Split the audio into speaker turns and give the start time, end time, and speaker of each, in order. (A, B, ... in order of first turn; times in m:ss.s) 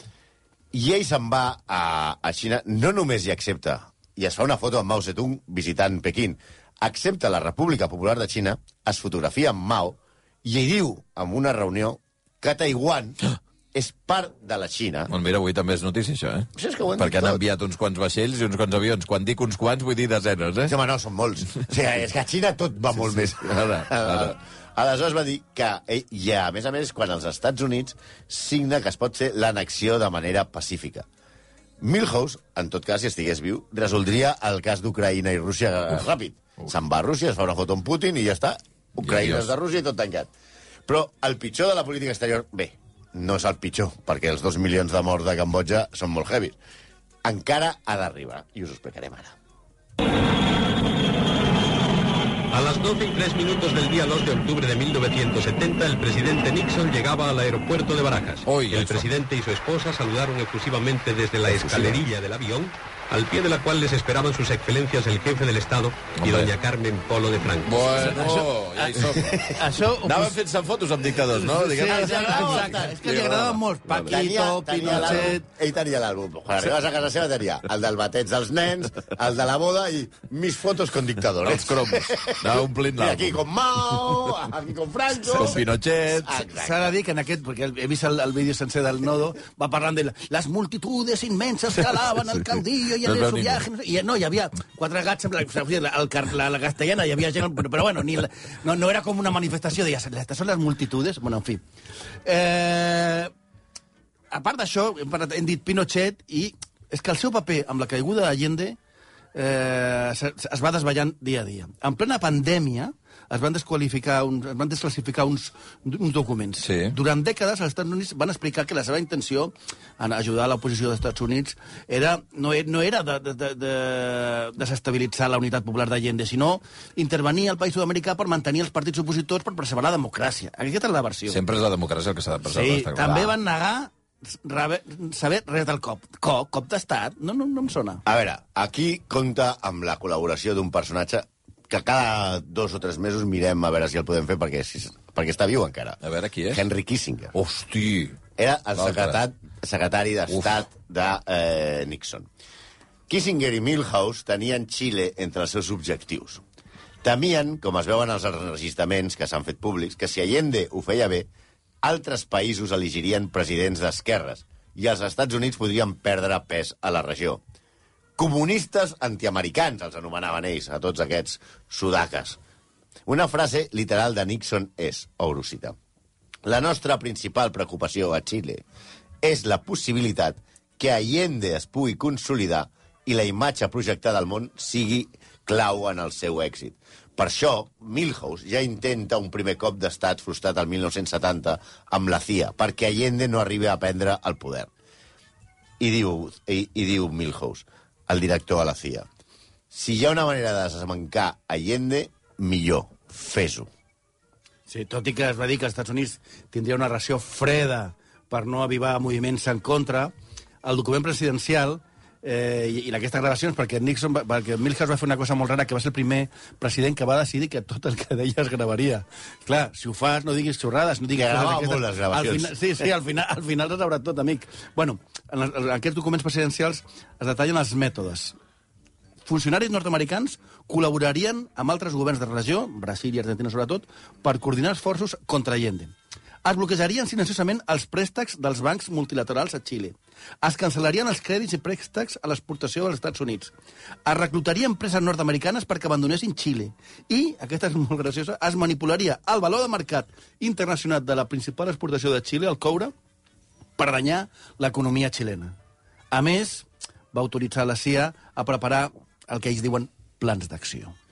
0:00.7-0:13.2 A
0:13.7-0:15.1 A
0:15.1-0:20.7 B
0:16.5-0:17.4 A
0:20.6-0:31.0 A
0:23.2-0:24.3 B
0:31.8-0:40.3 A
0:39.0-0:39.5 B
0:40.9-0:46.6 A
0:47.2-0:49.4 A
0:52.5-1:08.3 C
0:58.4-0:59.1 B
1:06.2-1:06.5 B
1:07.6-1:14.1 B
1:08.2-1:10.4 D
1:11.3-1:15.4 D
1:11.9-1:13.0 A
1:14.1-1:26.9 A
1:14.9-1:15.3 B
1:21.4-1:23.4 B
1:25.3-1:26.4 B
1:26.6-1:41.6 D
1:33.0-1:33.6 B
1:42.2-1:43.3 D
1:44.3-1:48.8 D
1:49.3-2:11.4 D
1:56.6-1:56.9 B
2:11.3-2:13.3 B
2:12.5-2:18.0 D
2:18.0-2:26.0 A
2:26.0-2:26.6 B
2:26.5-2:27.4 A
2:27.3-2:28.2 B
2:28.4-2:32.3 A
2:28.8-2:29.2 B
2:33.1-2:36.4 A
2:37.0-2:41.3 A
2:41.8-2:47.4 A
2:48.2-2:52.4 A
2:53.0-2:55.8 A
2:56.4-2:58.6 A
2:59.2-3:14.7 A
3:15.8-3:19.1 A
3:19.7-3:23.7 A
3:24.7-3:48.4 D
3:41.1-3:42.5 A
3:49.2-4:03.5 D
4:04.0-4:12.9 D
4:13.8-4:15.5 D
4:16.1-4:20.9 D